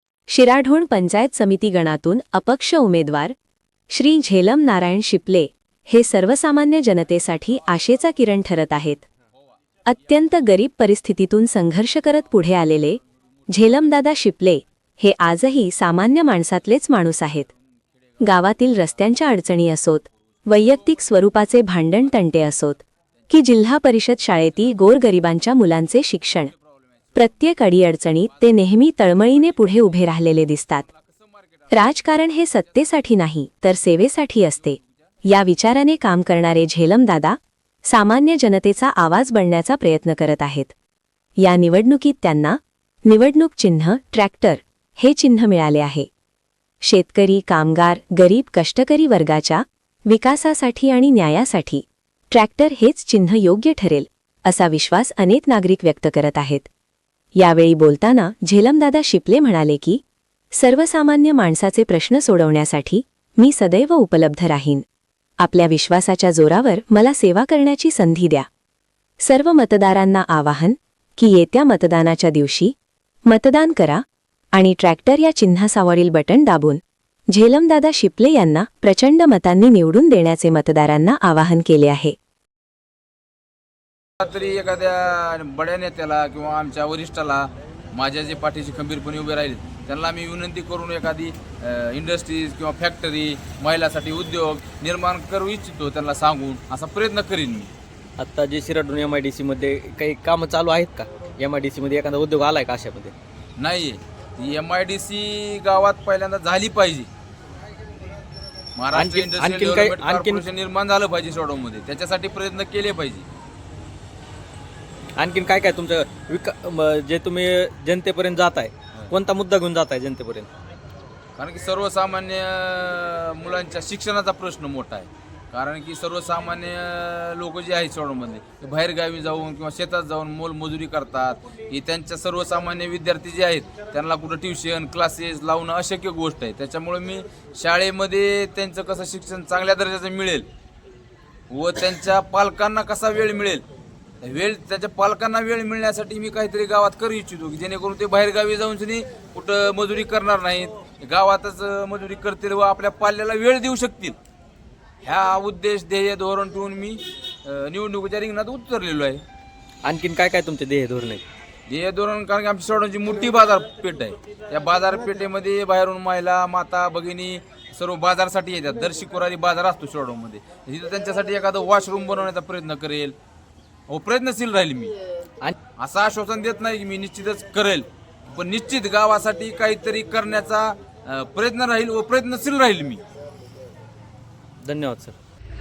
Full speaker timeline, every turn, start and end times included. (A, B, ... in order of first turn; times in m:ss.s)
0:00.3-0:03.4 A
0:03.9-0:09.0 A
0:09.9-0:17.5 A
0:18.2-0:26.5 A
0:27.2-0:30.9 A
0:30.9-0:31.7 B
0:31.7-0:40.7 A
0:41.4-0:46.1 A
0:46.8-0:56.7 A
0:57.4-1:00.0 A
1:00.5-1:04.8 A
1:05.4-1:08.5 A
1:09.2-1:12.8 A
1:13.3-1:22.2 A
1:24.2-1:37.7 B
1:38.2-1:43.1 C
1:43.6-1:47.1 B
1:48.8-1:53.3 B
1:48.9-1:50.4 C
1:55.2-2:00.5 C
2:01.4-2:20.5 B
2:21.5-2:23.6 B
2:24.2-2:34.2 B
2:35.0-2:39.2 B
2:39.8-2:41.2 C
2:41.7-2:53.2 B
2:53.9-2:55.0 B
2:55.8-3:03.0 B
3:04.6-3:05.2 C